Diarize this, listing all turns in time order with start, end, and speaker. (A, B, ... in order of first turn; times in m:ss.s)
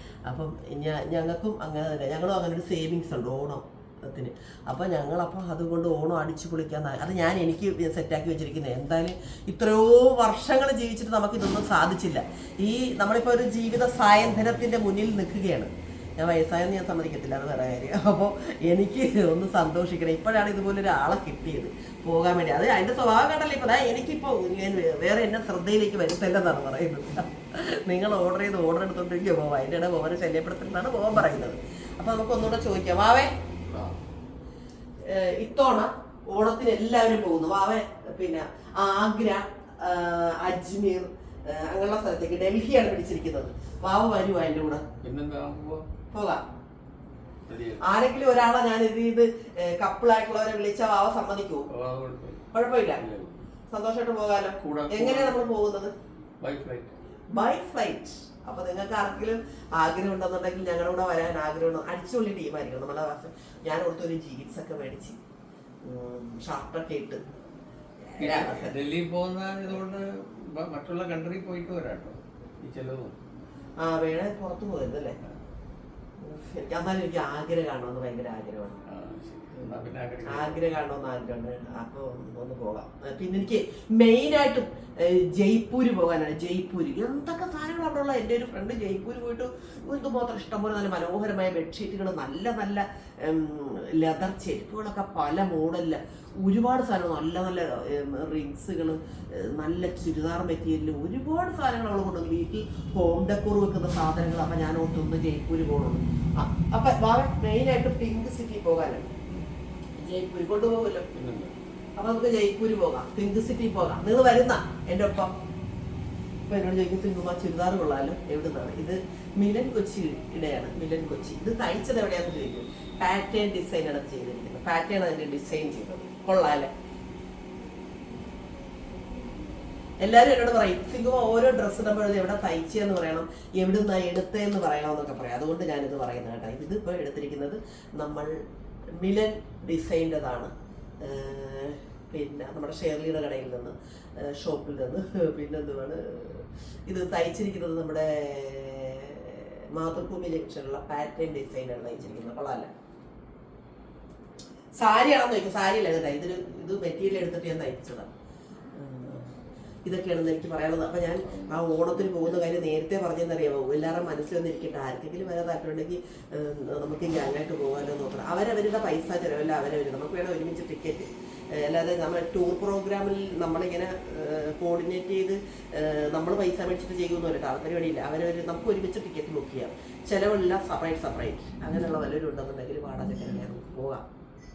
0:00.2-0:33.3 A
0:33.7-0:33.9 B
0:35.0-0:44.8 A
0:45.0-0:45.8 B
0:46.1-0:46.4 A
0:47.5-0:47.8 B
0:47.8-0:51.7 A
0:51.7-0:52.4 B
0:52.5-0:53.0 A
0:52.9-0:53.4 B
0:53.7-0:55.9 A
0:54.6-0:55.4 B
0:56.4-0:57.0 B
0:57.3-1:05.2 A
1:05.8-1:07.2 A
1:08.1-1:08.8 A
1:08.2-1:13.1 B
1:13.8-1:15.2 A
1:16.2-1:18.8 A
1:18.9-1:20.7 B
1:19.5-1:49.1 A
1:50.0-1:51.1 A
1:51.1-1:51.5 B
1:52.0-1:55.3 A
1:56.5-2:06.7 A
2:10.0-2:18.3 A
2:19.0-2:32.7 A
2:34.7-2:38.1 A
2:38.7-2:39.3 A
2:39.8-3:04.0 A
2:41.2-2:42.3 B